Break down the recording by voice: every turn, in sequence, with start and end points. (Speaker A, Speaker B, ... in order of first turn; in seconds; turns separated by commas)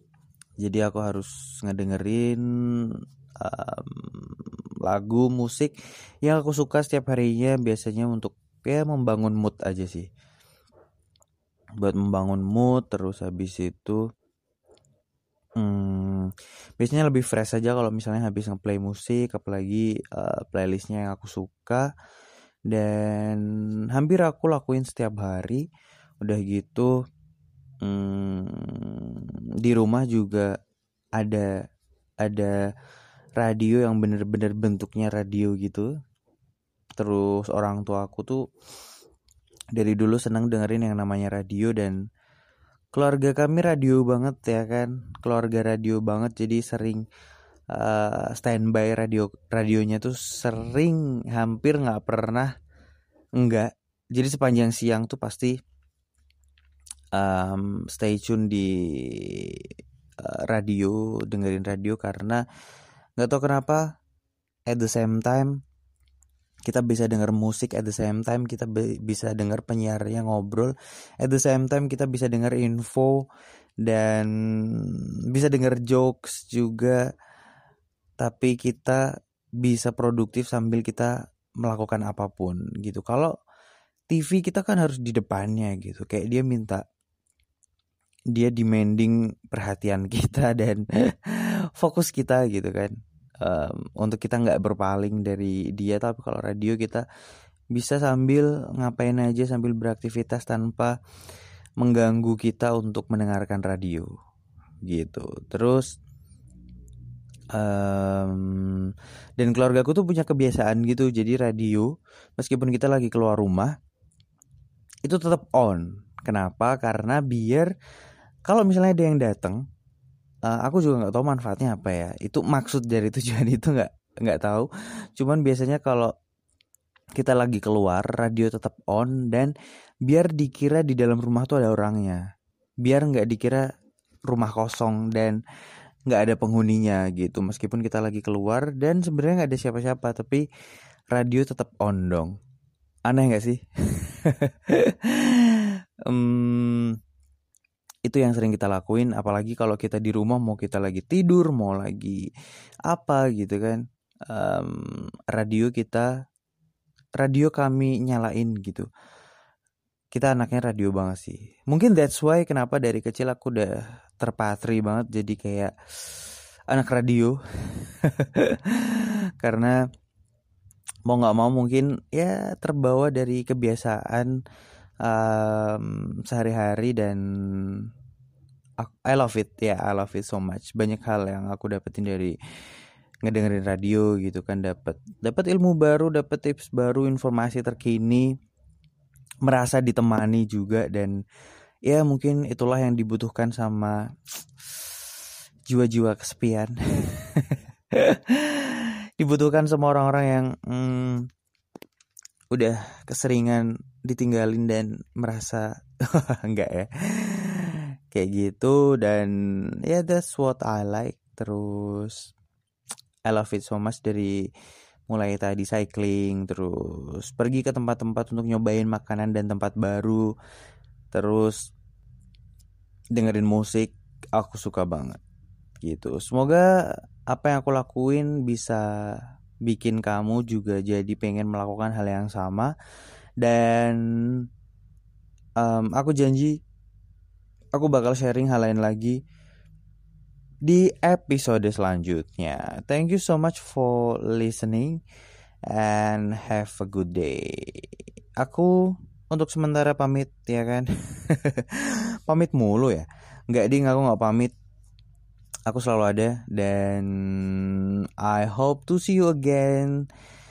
Speaker A: 0.6-10.1, Speaker A: 11.8-14.0, Speaker A: 15.6-21.9, Speaker A: 22.7-25.6, Speaker A: 26.2-26.9, Speaker A: 27.8-30.5, Speaker A: 31.2-31.5, Speaker A: 32.2-32.6, Speaker A: 33.4-35.9, Speaker A: 37.0-38.4, Speaker A: 39.8-42.0, Speaker A: 42.9-47.0, Speaker A: 47.7-52.5, Speaker A: 53.4-55.6, Speaker A: 57.1-62.4, Speaker A: 63.2-63.9, Speaker A: 64.7-65.6, Speaker A: 66.7-73.3, Speaker A: 73.8-77.1, Speaker A: 78.2-79.1, Speaker A: 79.6-83.3, Speaker A: 84.1-86.8, Speaker A: 88.3-97.0, Speaker A: 97.7-100.9, Speaker A: 101.8-104.1, Speaker A: 104.9-105.9, Speaker A: 107.5-113.8, Speaker A: 115.0-117.7, Speaker A: 118.5-119.6, Speaker A: 120.5-126.1, Speaker A: 127.2-129.5, Speaker A: 130.1-132.2, Speaker A: 132.8-133.7, Speaker A: 134.3-135.4, Speaker A: 136.1-140.5, Speaker A: 141.1-142.3, Speaker A: 143.1-147.0, Speaker A: 148.1-152.3, Speaker A: 152.9-156.2, Speaker A: 157.2-158.9, Speaker A: 160.1-169.8, Speaker A: 171.1-174.4, Speaker A: 175.0-177.9, Speaker A: 178.8-182.4, Speaker A: 183.2-188.3, Speaker A: 189.4-191.2, Speaker A: 191.9-194.0, Speaker A: 194.6-195.0, Speaker A: 195.7-201.3, Speaker A: 202.5-212.3, Speaker A: 213.3-214.5, Speaker A: 215.1-220.3, Speaker A: 221.1-221.7, Speaker A: 223.1-225.2, Speaker A: 225.8-232.7, Speaker A: 233.4-234.5, Speaker A: 235.6-236.6, Speaker A: 237.8-239.2, Speaker A: 240.6-245.0, Speaker A: 245.7-254.5, Speaker A: 255.7-260.1